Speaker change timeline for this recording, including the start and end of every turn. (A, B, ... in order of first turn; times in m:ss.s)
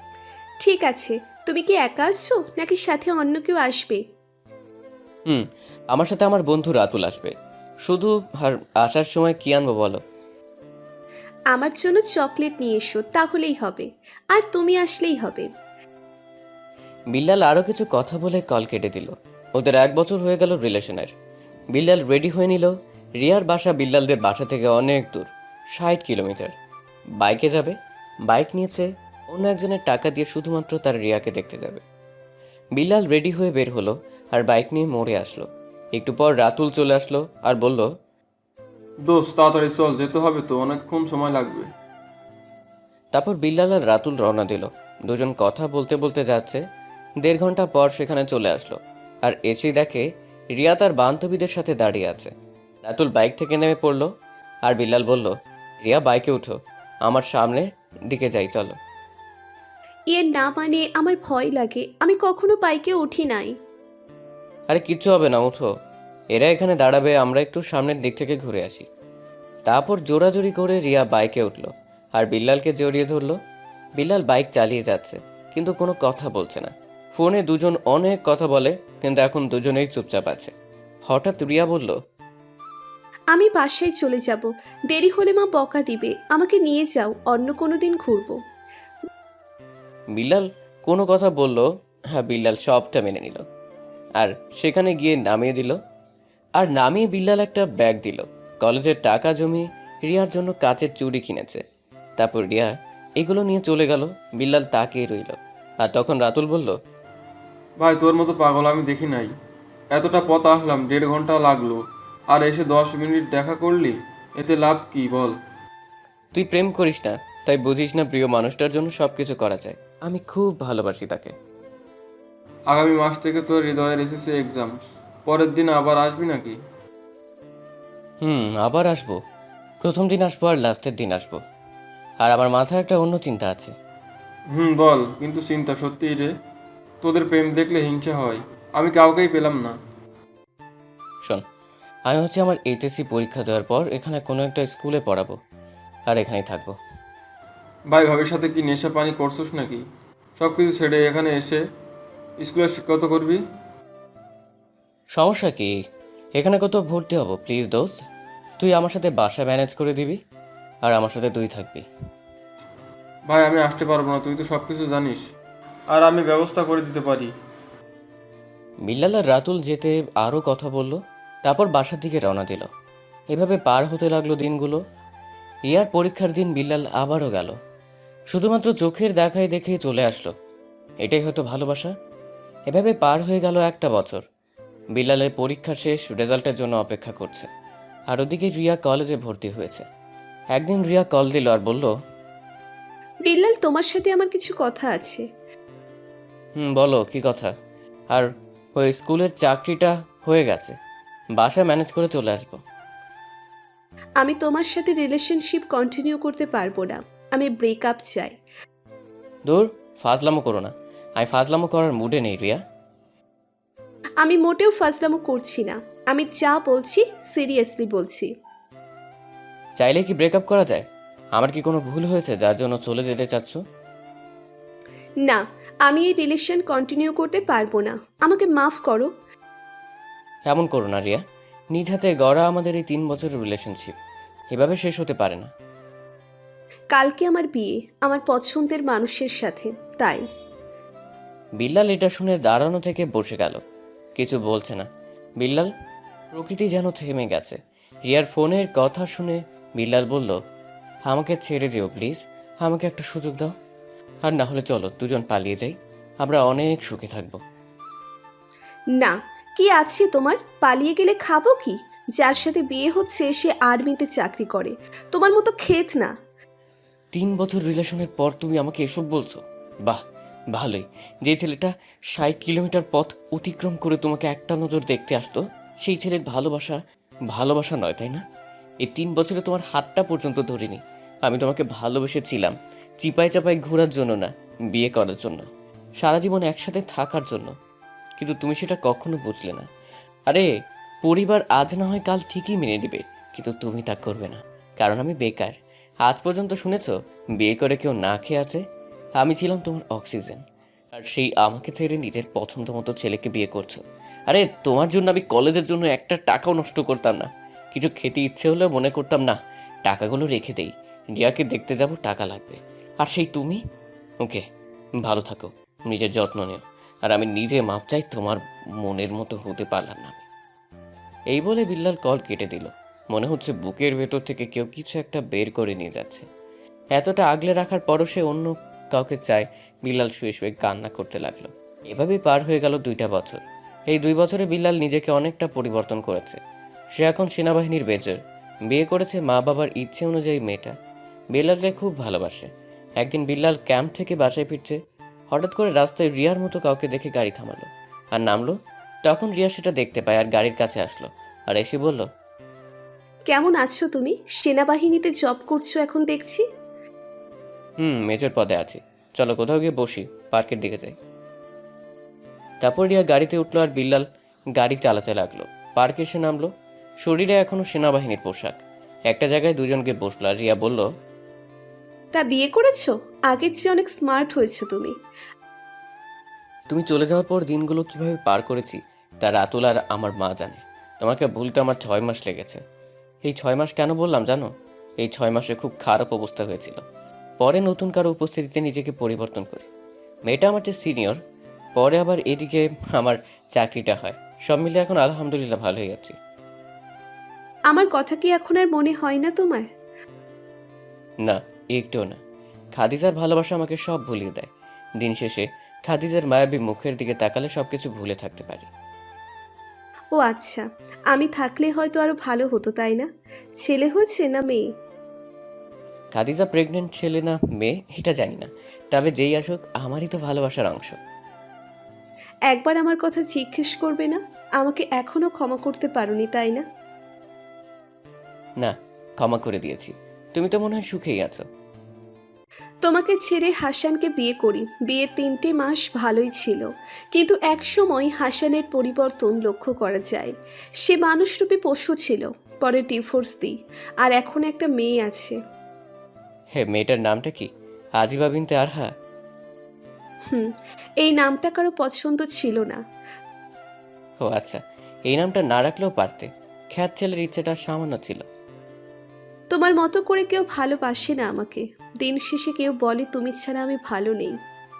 0:00.6-0:04.0 A
0:05.3-0:07.3 B
0:07.8-0:10.0 B
0:11.5-0:15.5 A
0:17.1-0:21.1 B
0:21.7-0:26.5 B
0:27.2-0:27.8 B
0:28.3-0:31.8 B
0:32.8-0:37.9 B
0:39.0-0:41.7 C
0:43.1-0:46.6 B
0:47.2-0:50.0 B
0:50.6-0:52.3 B
0:52.8-0:54.1 B
0:54.6-0:58.8 B
1:00.1-1:03.5 A
1:04.7-1:05.7 B
1:06.3-1:08.9 B
1:09.7-1:13.4 B
1:14.0-1:20.5 B
1:21.1-1:22.0 B
1:23.3-1:28.4 A
1:30.1-1:33.4 B
1:34.2-1:35.8 B
1:36.6-1:41.6 B
1:42.2-1:46.8 B
1:47.8-1:49.3 C
1:49.9-1:55.4 C
1:56.3-2:01.3 B
2:02.7-2:04.7 C
2:05.2-2:06.6 C
2:08.2-2:09.2 B
2:09.8-2:11.4 B
2:12.2-2:13.7 B
2:14.5-2:16.3 C
2:17.0-2:19.8 C
2:22.1-2:25.4 B
2:26.1-2:26.8 B
2:27.9-2:29.8 C
2:30.4-2:31.6 C
2:32.4-2:33.4 C
2:35.1-2:35.7 B
2:36.4-2:38.0 B
2:38.6-2:40.2 B
2:40.8-2:41.8 B
2:43.3-2:45.2 C
2:45.9-2:47.3 C
2:48.8-2:52.7 B
2:53.3-2:54.8 B
2:55.7-2:57.6 B
2:58.3-3:00.3 B
3:01.0-3:01.9 B
3:02.7-3:04.2 B
3:05.0-3:07.5 B
3:08.1-3:09.8 B
3:10.5-3:11.9 B
3:13.2-3:15.2 A
3:16.6-3:17.5 B
3:18.1-3:20.8 B
3:21.4-3:22.6 B
3:24.2-3:28.4 A
3:29.4-3:32.6 B
3:34.2-3:38.3 A
3:39.8-3:40.8 B
3:41.4-3:43.6 B
3:45.2-3:49.1 A
3:50.5-3:53.9 B
3:54.5-3:55.5 B
3:56.9-4:00.2 A
4:01.6-4:03.6 B
4:04.2-4:04.9 B
4:05.4-4:05.7 B
4:06.3-4:10.4 B
4:11.1-4:13.5 B
4:14.2-4:17.4 B
4:19.0-4:26.1 A
4:27.1-4:30.0 B
4:30.5-4:36.8 B
4:37.3-4:38.2 B
4:38.8-4:45.5 B
4:46.0-4:47.5 B
4:48.2-4:49.7 B
4:51.0-4:58.6 B
4:59.2-5:00.4 B
5:00.9-5:13.6 B
5:15.0-5:20.2 B
5:21.3-5:26.3 B
5:26.9-5:36.4 B
5:37.0-5:40.8 B
5:41.3-5:44.8 B
5:45.3-5:48.5 B
5:49.0-5:52.1 B
5:53.3-5:56.4 A
5:57.8-6:00.9 B
6:02.6-6:04.0 B
6:04.6-6:06.5 B
6:07.0-6:10.8 B
6:12.1-6:14.9 A
6:16.7-6:22.6 B
6:23.2-6:26.8 B
6:27.4-6:29.7 B
6:30.3-6:31.2 B
6:31.8-6:36.2 B
6:37.7-6:39.7 A
6:41.2-6:42.2 B
6:42.8-6:48.7 B
6:50.1-6:53.1 A
6:53.6-6:54.6 A
6:56.1-7:01.0 B
7:02.5-7:06.6 A
7:08.6-7:11.4 B
7:12.8-7:20.3 A
7:20.8-7:25.4 A
7:26.5-7:28.9 B
7:31.0-7:32.8 A
7:34.2-7:38.2 B
7:39.5-7:44.3 A